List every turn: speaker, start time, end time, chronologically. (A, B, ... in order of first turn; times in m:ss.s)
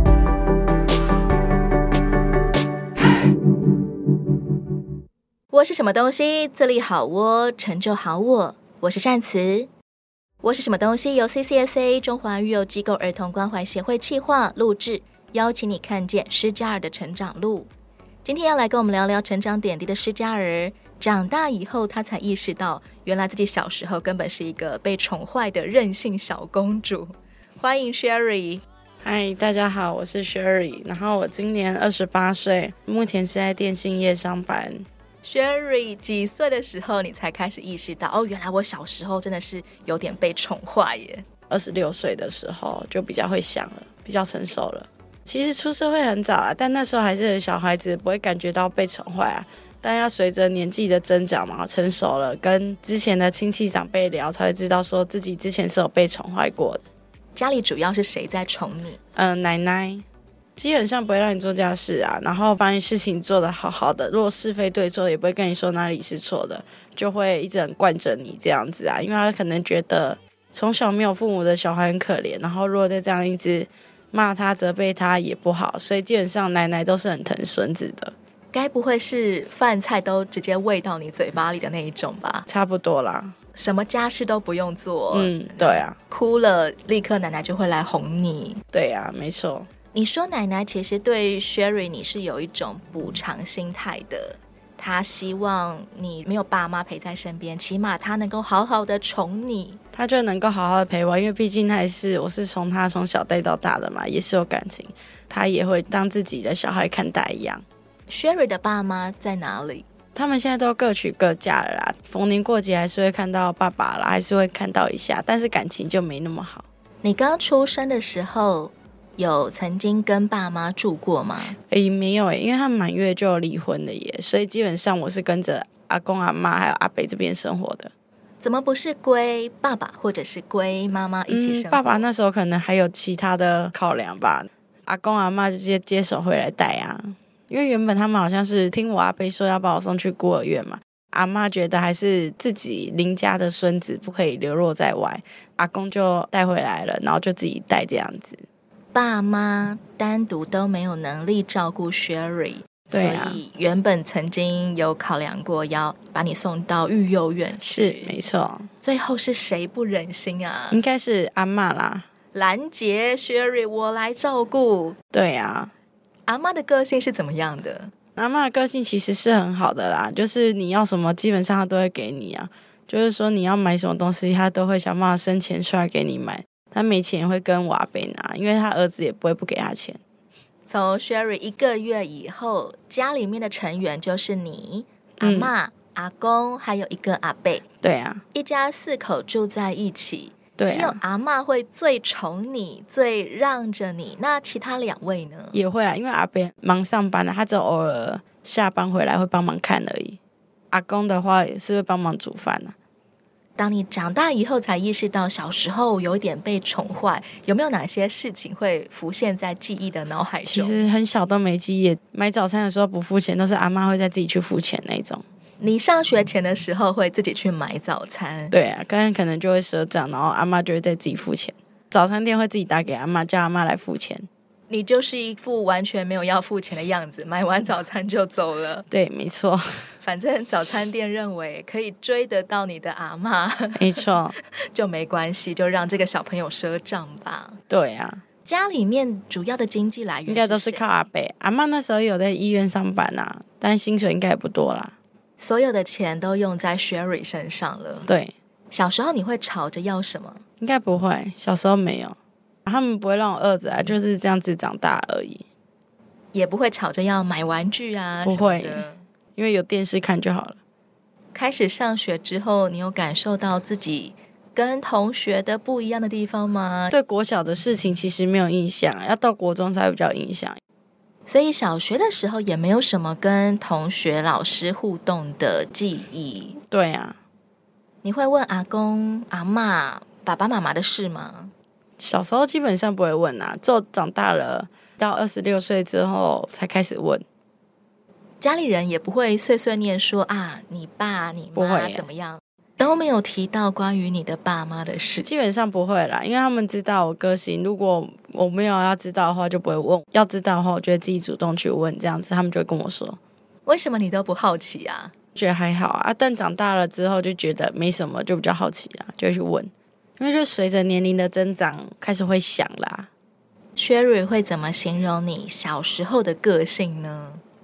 0:05.5-0:09.7 A
0:10.4-0:17.7 A
0:18.2-0:28.6 A
0:29.0-0:34.8 B
0:35.2-0:41.2 A
0:41.5-0:56.8 B
0:57.3-0:59.0 A
0:59.2-1:00.0 B
1:00.6-1:18.1 B
1:18.5-1:22.4 A
1:22.5-1:23.3 B
1:23.5-1:28.6 A
1:25.1-1:26.0 B
1:28.7-1:29.7 B
1:29.9-1:39.8 A
1:39.9-1:47.6 B
1:48.1-1:49.8 A
1:50.1-1:56.6 B
1:57.0-2:01.6 A
2:01.7-2:07.9 B
2:08.4-2:12.0 A
2:11.3-2:28.4 B
2:28.9-2:38.1 A
2:32.9-2:33.4 B
2:37.6-2:38.7 B
2:38.8-2:40.8 A
2:40.7-2:42.1 B
2:42.3-2:45.0 A
2:45.1-2:45.7 B
2:46.3-2:47.9 A
2:48.2-3:00.0 B
3:00.7-3:07.6 A
3:05.2-3:05.5 B
3:07.8-3:08.2 B
3:08.3-3:15.6 A
3:10.6-3:11.0 B
3:15.5-3:20.2 B
3:20.7-3:22.7 B
3:23.6-3:30.8 A
3:30.4-3:35.2 B
3:35.6-3:38.5 A
3:38.5-3:44.3 B
3:44.7-3:48.8 A
3:48.9-3:49.9 B
3:50.0-3:57.6 A
3:53.8-3:54.3 B
3:57.7-3:58.2 B
3:58.4-4:00.8 A
4:00.3-4:04.9 B
4:05.4-4:08.1 A
4:08.0-4:08.3 B
4:08.7-4:10.4 A
4:10.6-4:15.4 B
4:16.3-4:19.0 A
4:18.2-4:20.6 B
4:21.3-4:26.9 A
4:26.9-4:30.6 B
4:31.2-4:36.6 A
4:36.7-4:37.2 B
4:38.0-4:41.5 A
4:42.0-4:47.2 B
4:48.4-4:55.3 A
4:51.5-4:52.1 B
4:55.2-5:03.2 B
5:03.6-5:05.1 A
5:05.3-5:13.1 B
5:13.8-5:17.4 A